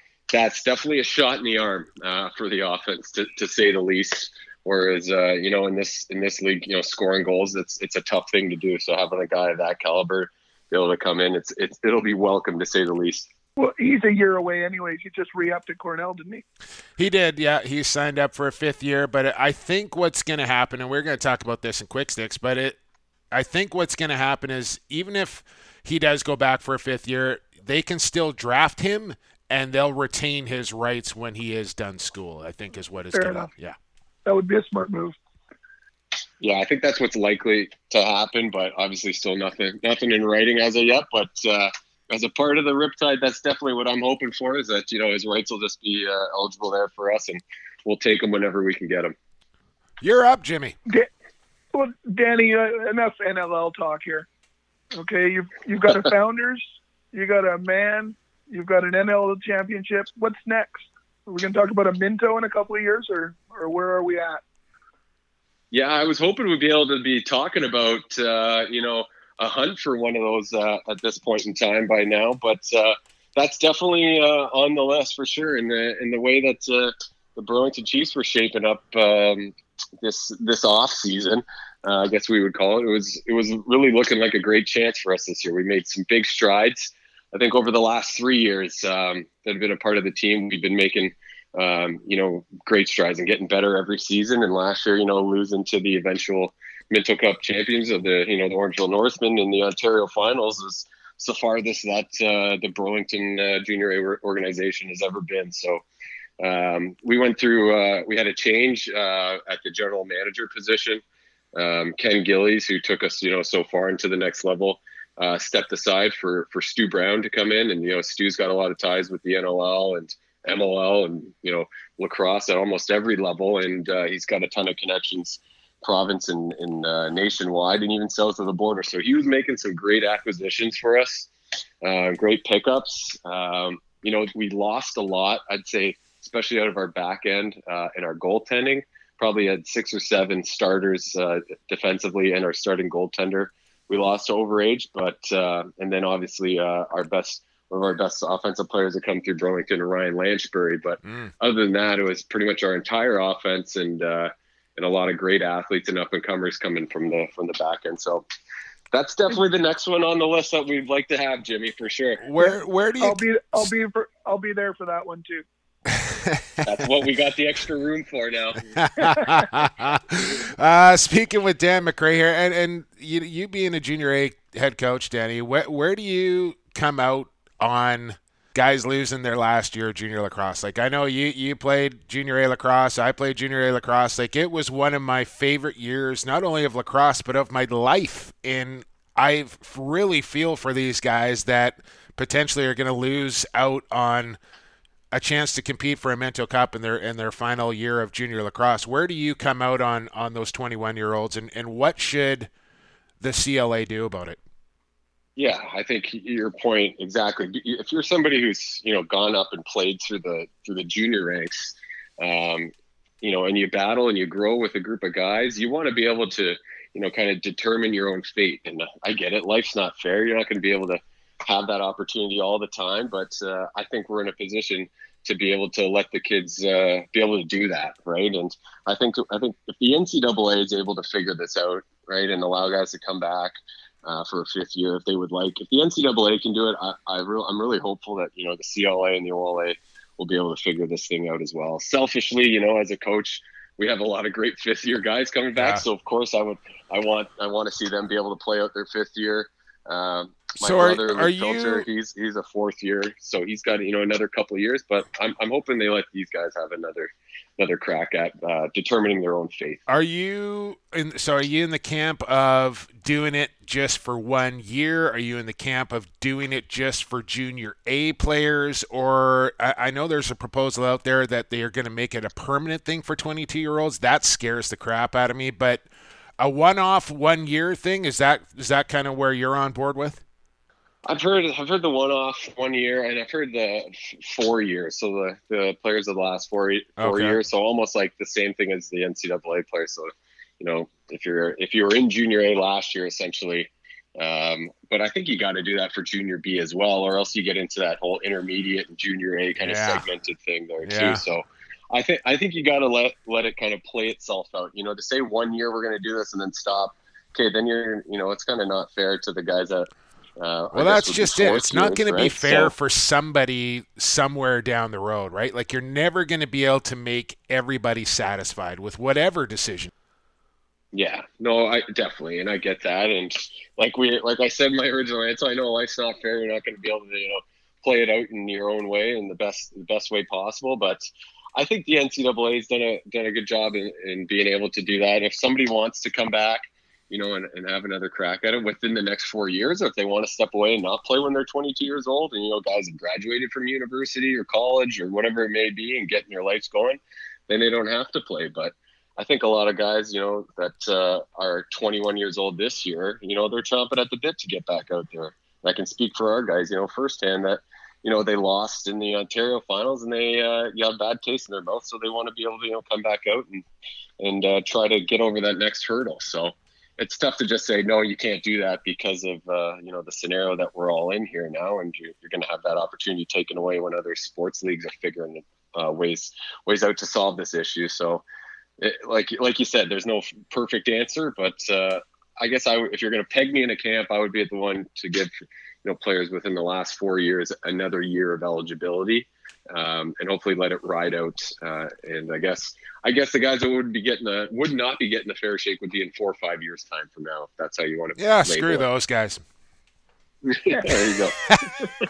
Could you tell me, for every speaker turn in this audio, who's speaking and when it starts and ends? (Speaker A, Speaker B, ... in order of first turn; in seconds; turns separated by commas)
Speaker A: 0.3-13.3, Speaker B: 13.6-16.4, Speaker C: 17.0-22.8, Speaker C: 23.3-33.8, Speaker B: 33.1-33.5, Speaker B: 34.3-35.1, Speaker A: 36.4-49.1, Speaker C: 50.0-50.8, Speaker B: 51.7-54.3, Speaker B: 55.0-64.4, Speaker A: 65.7-105.8, Speaker A: 106.4-111.0, Speaker A: 111.5-131.3, Speaker A: 131.8-158.2, Speaker C: 151.1-151.3, Speaker A: 158.9-162.2, Speaker C: 162.2-163.7, Speaker B: 162.4-165.4, Speaker C: 165.9-166.6, Speaker A: 166.6-168.7, Speaker C: 168.7-194.4, Speaker B: 169.0-169.3, Speaker C: 195.1-202.5, Speaker C: 203.2-204.4, Speaker A: 205.4-259.8, Speaker C: 245.6-245.8, Speaker C: 250.6-251.9, Speaker C: 259.9-275.9, Speaker C: 276.4-280.2, Speaker A: 281.1-312.7, Speaker C: 287.0-287.4, Speaker C: 299.6-300.1, Speaker C: 300.8-301.2, Speaker C: 310.7-319.9, Speaker A: 320.9-363.6, Speaker A: 364.2-378.2, Speaker A: 378.8-385.3, Speaker A: 385.9-398.9, Speaker C: 398.2-399.4, Speaker A: 400.4-401.4